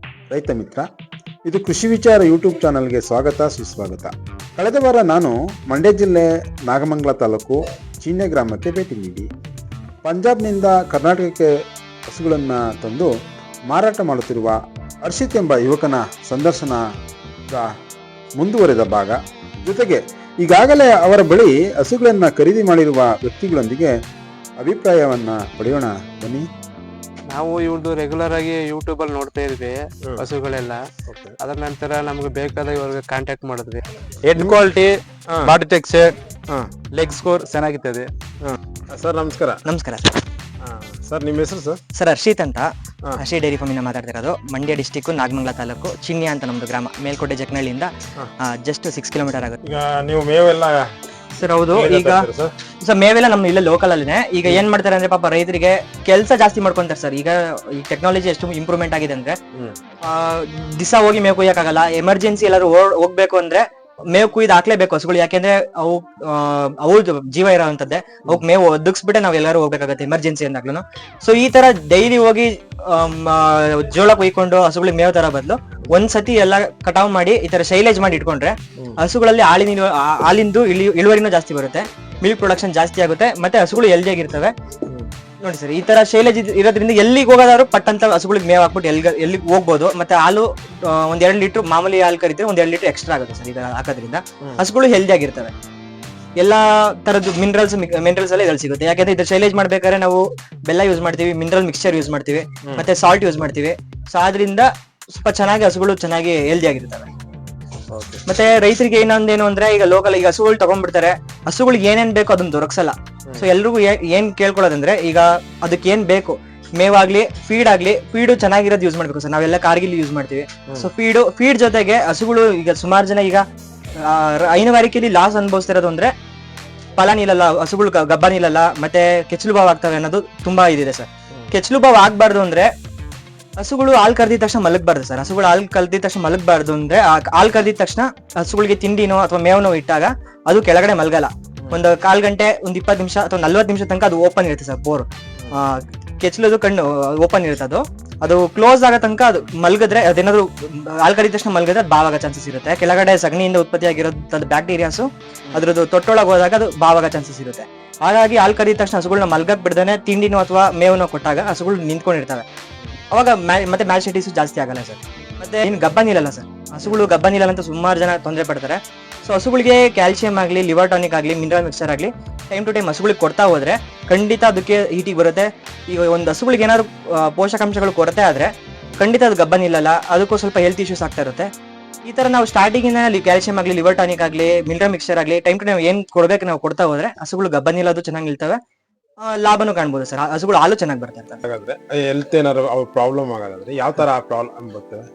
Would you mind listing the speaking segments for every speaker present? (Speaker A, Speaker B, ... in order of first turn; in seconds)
Speaker A: 0.3-0.9, 1.5-9.3, 10.1-11.5, 12.1-13.1, 13.7-16.9, 18.4-23.9, 24.6-26.5
Speaker B: 27.3-30.8, 31.4-33.8
Speaker C: 31.1-31.4, 35.3-35.5, 38.4-39.6, 40.6-41.8, 49.6-50.9, 51.7-52.5, 59.5-59.8, 84.9-85.1, 107.9-108.2, 191.4-195.1
Speaker D: 34.2-36.1, 37.0-38.1
Speaker E: 39.6-40.2, 42.0-47.9, 48.4-49.6, 51.4-52.3, 52.8-59.4, 60.0-84.5, 85.4-95.5, 96.4-107.1, 108.3-123.5, 124.0-126.1, 127.0-132.7, 133.6-162.4, 163.1-181.5, 182.1-188.6, 189.2-191.4